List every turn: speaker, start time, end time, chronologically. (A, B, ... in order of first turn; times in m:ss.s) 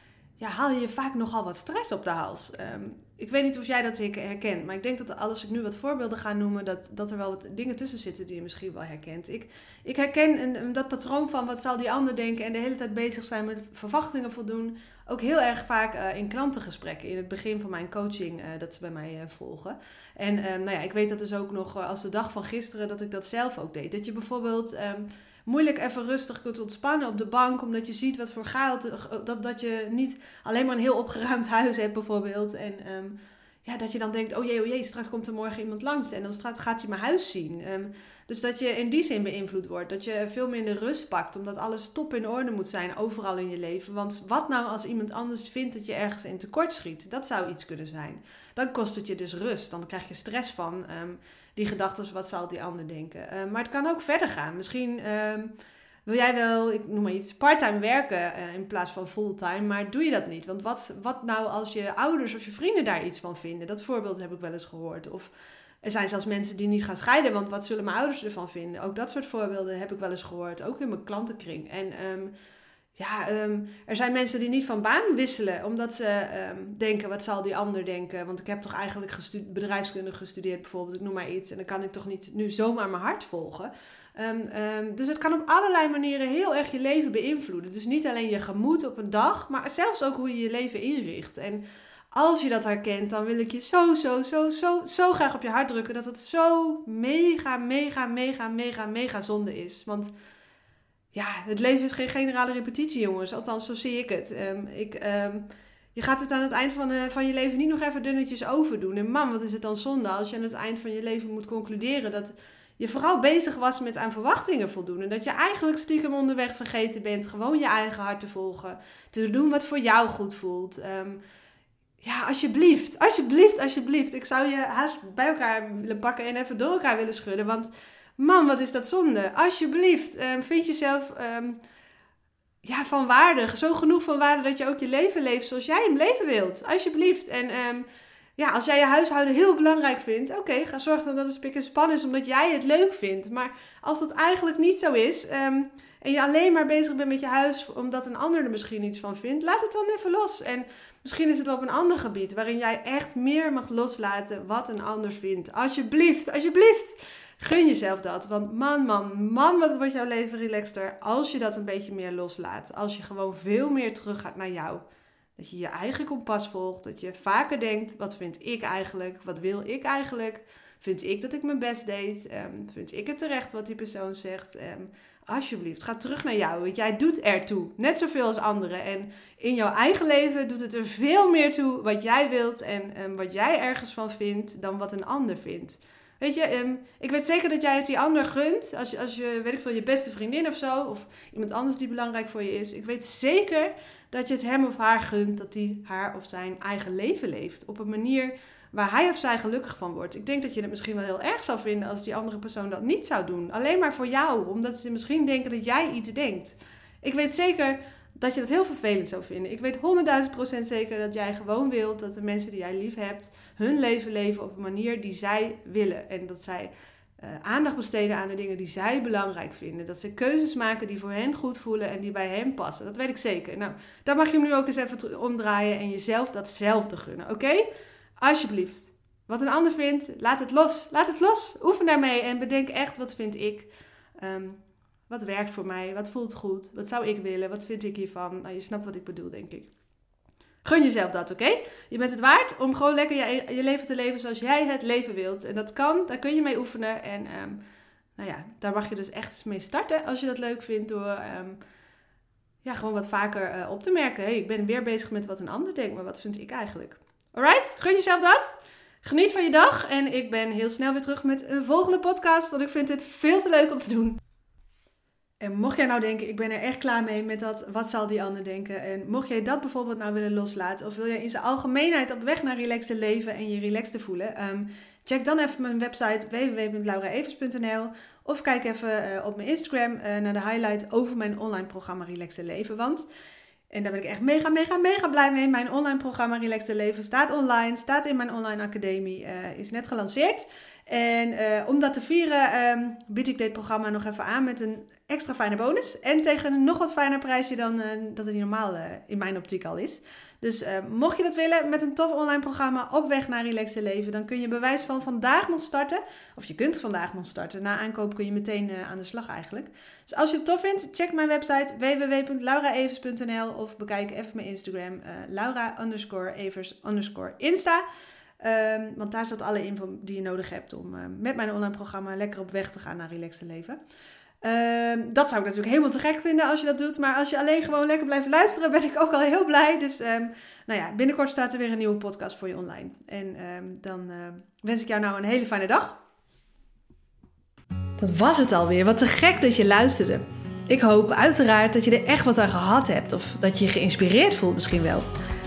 0:00.4-0:55.6 A
0:56.1-1:05.3 A
1:05.8-1:12.3 A
1:13.0-1:40.1 A
1:41.1-2:01.2 A
2:02.0-2:11.6 A
2:12.6-2:44.8 A
2:45.4-3:47.7 A
3:48.2-3:59.7 A
4:00.6-4:07.6 A
4:08.2-4:11.6 A
4:12.6-4:24.2 A
4:25.4-4:43.1 A
4:43.7-5:17.8 A
5:18.4-5:23.8 A
5:24.4-5:36.0 A
5:38.0-5:45.1 A